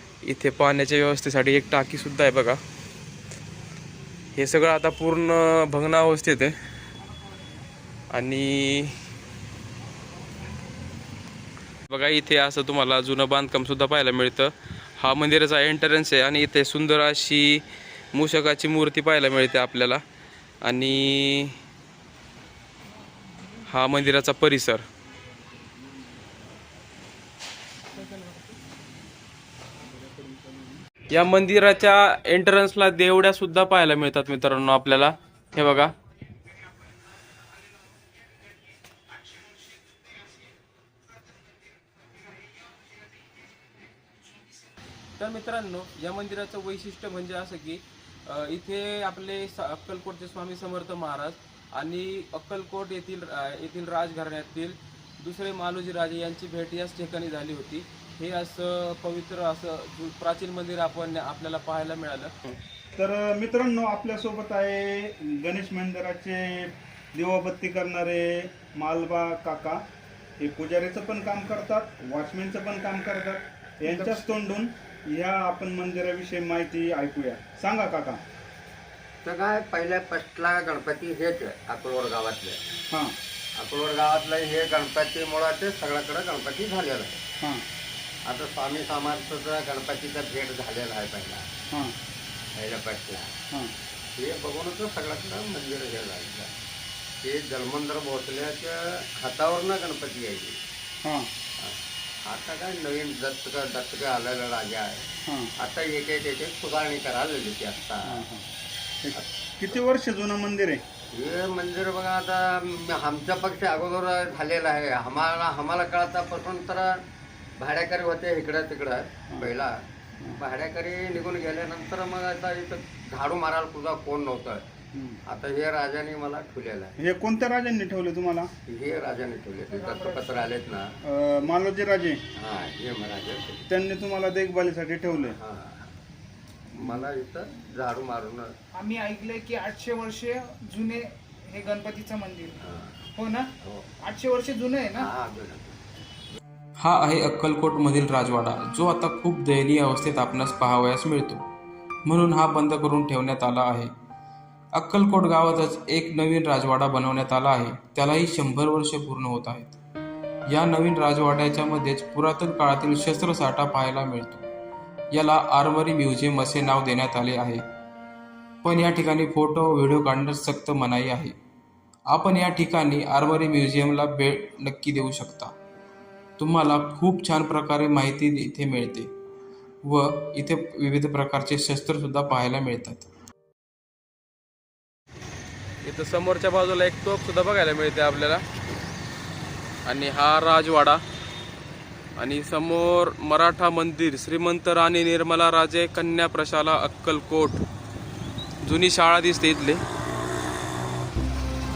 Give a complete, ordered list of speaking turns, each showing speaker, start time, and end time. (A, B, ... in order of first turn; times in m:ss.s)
0:00.2-0:02.6 A
0:04.4-0:06.6 A
0:08.1-0:08.9 A
0:11.9-0:20.0 A
0:20.6-0:21.5 A
0:23.7-0:24.8 A
0:31.1-0:35.9 A
0:45.2-1:02.6 A
1:03.0-1:09.8 B
1:10.4-1:18.2 B
1:13.9-1:14.3 C
1:19.2-1:22.6 D
1:22.9-1:23.2 B
1:23.5-1:27.2 D
1:28.2-1:31.5 D
1:31.7-1:32.0 B
1:32.5-1:33.3 D
1:34.2-1:36.5 D
1:37.2-1:40.6 D
1:41.0-1:41.3 B
1:41.6-1:45.0 D
1:45.3-1:45.5 B
1:45.6-1:48.2 D
1:48.0-1:48.4 B
1:49.0-1:50.8 B
1:51.1-1:56.9 D
1:57.6-1:59.7 D
2:00.3-2:04.6 D
2:04.9-2:05.2 B
2:05.3-2:06.9 D
2:07.0-2:08.5 B
2:08.7-2:11.0 D
2:09.7-2:10.5 C
2:11.0-2:12.2 B
2:12.3-2:13.7 D
2:13.7-2:15.4 B
2:15.2-2:15.9 D
2:16.7-2:18.5 D
2:18.8-2:22.6 C
2:22.6-2:23.0 D
2:23.2-2:23.5 C
2:23.6-2:23.9 D
2:24.0-2:25.1 C
2:25.0-2:25.8 D
2:26.8-2:31.4 E
2:32.0-2:33.9 E
2:34.7-2:39.8 E
2:40.5-2:44.5 E
2:45.1-2:47.6 E
2:48.6-2:51.4 E
2:52.1-2:55.5 E
2:56.4-2:59.1 E
2:59.8-3:03.0 E
3:05.8-3:08.4 A
3:09.8-3:11.0 A
3:12.2-3:17.6 A
3:18.6-3:19.8 A